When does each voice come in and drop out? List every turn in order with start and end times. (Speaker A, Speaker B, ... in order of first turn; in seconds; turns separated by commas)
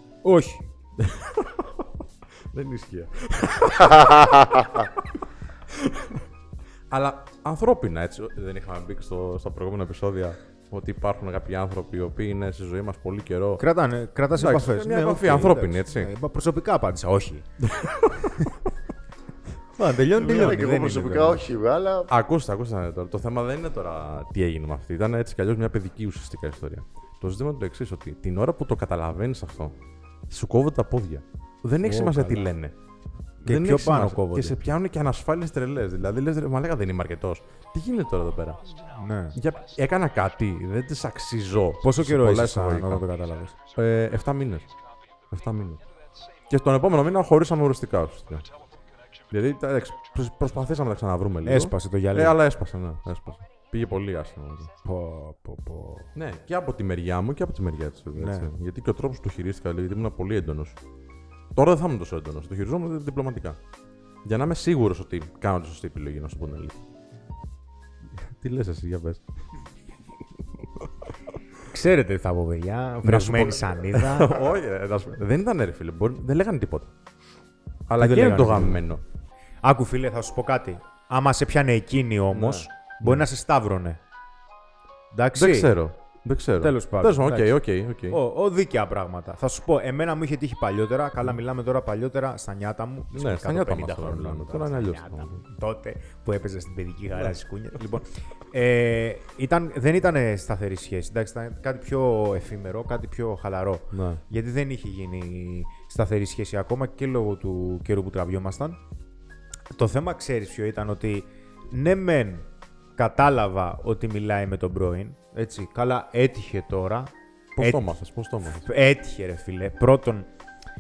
Speaker A: 0.2-0.7, Speaker B: 1.0-1.9, Speaker B: 2.5-5.0, Speaker B: 5.7-6.2, Speaker B: 6.9-13.6, Speaker A: 13.6-17.5, Speaker B: 14.3-16.1, Speaker B: 17.7-18.3, Speaker A: 19.8-21.4, Speaker C: 20.1-22.1, Speaker B: 20.3-20.5, Speaker B: 22.1-29.8, Speaker B: 30.3-32.7, Speaker A: 31.8-32.5, Speaker A: 33.4-34.6, Speaker B: 33.5-38.8, Speaker A: 38.9-39.4, Speaker B: 39.4-43.0, Speaker A: 41.8-43.6, Speaker B: 43.8-44.7, Speaker B: 45.3-45.8, Speaker B: 46.5-48.5, Speaker B: 49.3-54.7, Speaker A: 51.5-52.4, Speaker A: 54.8-56.1, Speaker B: 56.1-60.8, Speaker A: 58.1-58.5, Speaker B: 61.6-63.6, Speaker B: 64.2-66.8, Speaker B: 68.1-69.2, Speaker A: 71.7-74.5, Speaker B: 73.0-76.9, Speaker B: 77.9-79.0, Speaker A: 78.0-78.8, Speaker A: 79.6-84.0, Speaker B: 82.3-83.3, Speaker A: 85.1-85.7, Speaker B: 85.3-88.2, Speaker A: 86.6-108.8, Speaker B: 93.1-95.4, Speaker B: 97.2-98.0, Speaker B: 103.9-104.2, Speaker A: 109.7-120.3, Speaker B: 117.6-118.7